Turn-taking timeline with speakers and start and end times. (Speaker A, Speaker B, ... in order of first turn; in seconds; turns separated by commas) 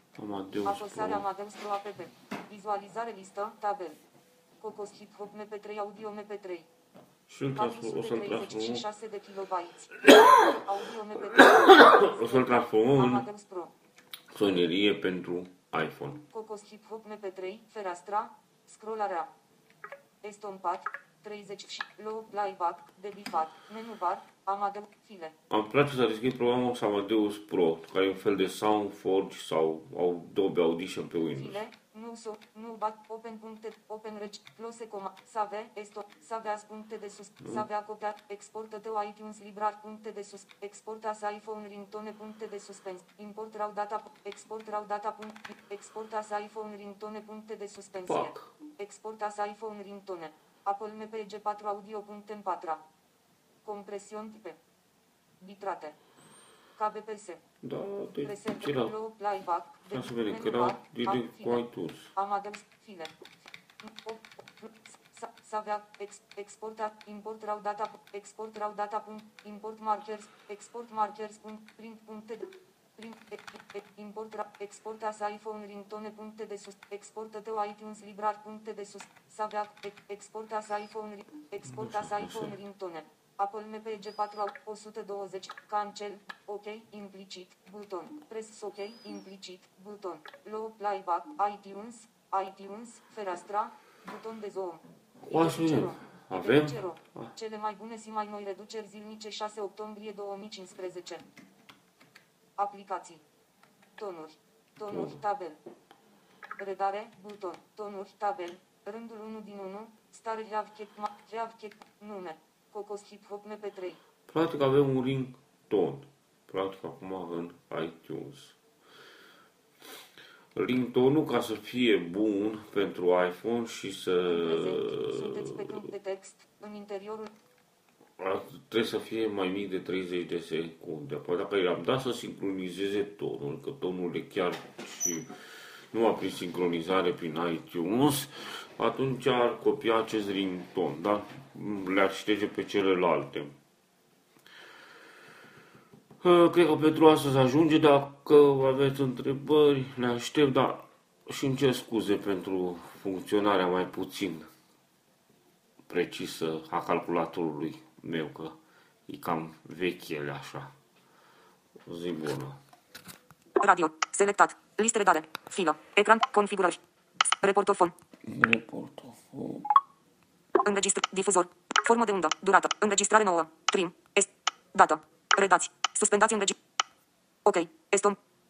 Speaker A: 0.2-1.2, Speaker B: 0.6-4.0, Speaker B: 4.6-6.7, Speaker A: 7.3-8.8, Speaker B: 7.5-13.7, Speaker A: 11.3-13.2, Speaker A: 14.3-16.2, Speaker B: 16.3-19.3, Speaker B: 20.2-25.4, Speaker A: 25.5-31.6, Speaker B: 31.3-52.8, Speaker A: 48.0-48.5, Speaker B: 53.6-54.6, Speaker B: 55.4-56.0, Speaker B: 56.8-57.4, Speaker A: 57.6-58.9, Speaker B: 58.2-101.2, Speaker A: 59.9-62.1, Speaker A: 81.7-82.5, Speaker A: 95.2-97.3, Speaker B: 102.6-103.2, Speaker B: 104.0-105.6, Speaker A: 104.9-105.2, Speaker B: 106.6-114.0, Speaker A: 114.3-118.6, Speaker A: 120.5-125.9, Speaker B: 124.3-127.3, Speaker A: 128.2-135.3, Speaker A: 135.9-143.5, Speaker A: 146.2-154.5, Speaker A: 155.9-158.6, Speaker A: 159.1-160.7, Speaker A: 161.8-162.6, Speaker C: 163.6-167.9, Speaker A: 168.2-169.7, Speaker C: 170.6-176.6, Speaker C: 177.4-178.2